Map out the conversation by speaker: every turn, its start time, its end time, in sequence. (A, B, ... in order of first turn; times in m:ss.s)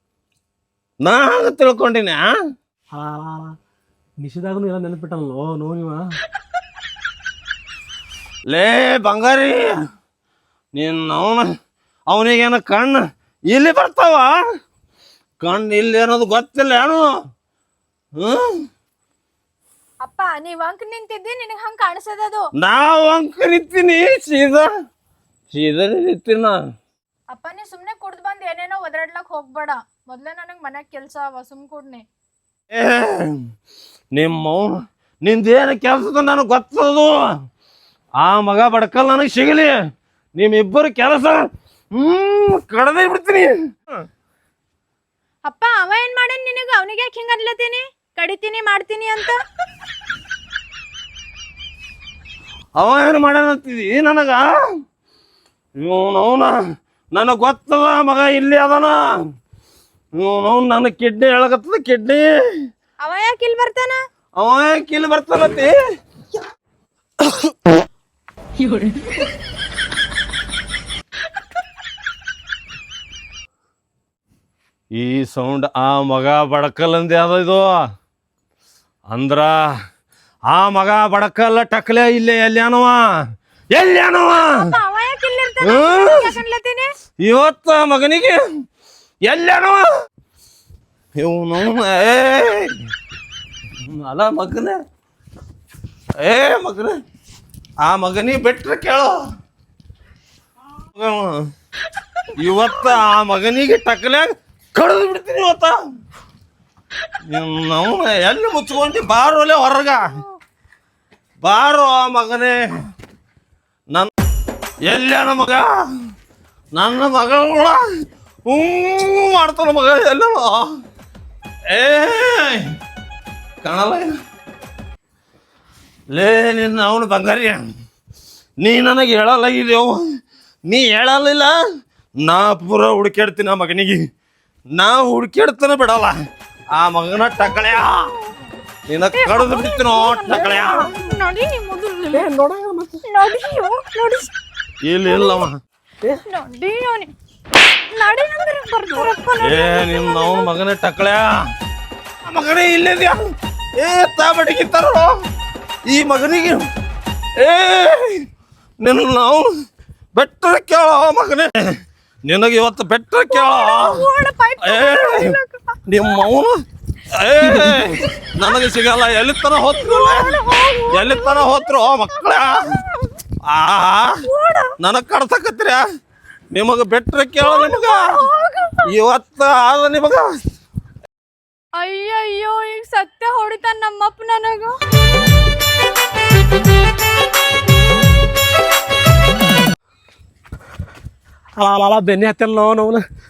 0:01.0-0:02.3 A
0:02.9-0:03.6 B
0:04.2-0:06.1 B
0:08.5-0:09.7 A
0:10.8-0:11.5 A
0:12.1-0:14.4 A
0:15.4-0:17.1 A
0:18.2-0:18.5 A
0:20.0-0:22.5 C
0:22.6-0:24.7 A
0:25.5-0:26.6 A
0:27.3-0:32.0 C
0:32.7-0:33.4 A
0:34.1-0:37.1 A
0:38.2-0:39.7 A
0:40.4-0:43.5 A
0:45.4-0:49.4 C
0:52.8-0:54.5 A
0:55.8-0:56.6 A
0:57.1-0:59.2 A
1:00.1-1:02.6 A
1:03.0-1:04.0 C
1:04.4-1:05.7 A
1:08.6-1:09.2 B
1:14.9-1:17.7 A
1:19.1-1:19.6 A
1:20.5-1:23.0 A
1:23.7-1:24.7 A
1:24.6-1:26.9 C
1:25.6-1:26.3 A
1:27.2-1:28.4 A
1:29.2-1:29.9 A
1:31.2-1:32.7 A
1:33.8-1:34.8 A
1:36.2-1:36.9 A
1:37.8-1:39.2 A
1:40.9-1:41.4 A
1:42.4-1:45.8 A
1:47.3-1:50.1 A
1:51.4-1:52.6 A
1:54.8-1:55.8 A
1:56.7-1:57.8 A
1:58.4-2:00.7 A
2:01.7-2:02.6 A
2:03.6-2:04.1 A
2:06.1-2:07.7 A
2:08.6-2:10.0 A
2:10.7-2:11.5 A
2:12.2-2:14.0 A
2:14.7-2:16.1 A
2:16.8-2:18.1 A
2:17.5-2:18.1 C
2:18.9-2:20.9 A
2:19.1-2:22.3 C
2:22.1-2:23.0 B
2:23.0-2:24.3 C
2:24.8-2:25.6 A
2:25.1-2:25.4 C
2:26.3-2:27.1 C
2:27.9-2:30.5 C
2:29.4-2:31.4 A
2:32.2-2:33.2 A
2:33.8-2:35.1 A
2:35.9-2:36.6 A
2:37.4-2:38.2 A
2:38.8-2:39.5 A
2:40.1-2:41.5 A
2:42.2-2:44.1 A
2:43.3-2:45.8 C
2:44.6-2:45.3 A
2:45.9-2:46.6 A
2:47.1-2:50.4 A
2:49.7-2:53.1 C
2:50.9-2:52.7 A
2:53.4-2:54.2 A
2:54.2-2:54.7 C
2:54.8-2:55.8 A
2:56.5-2:58.2 A
2:57.4-2:58.9 C
2:58.8-3:00.2 A
3:01.8-3:04.8 C
3:11.6-3:13.0 B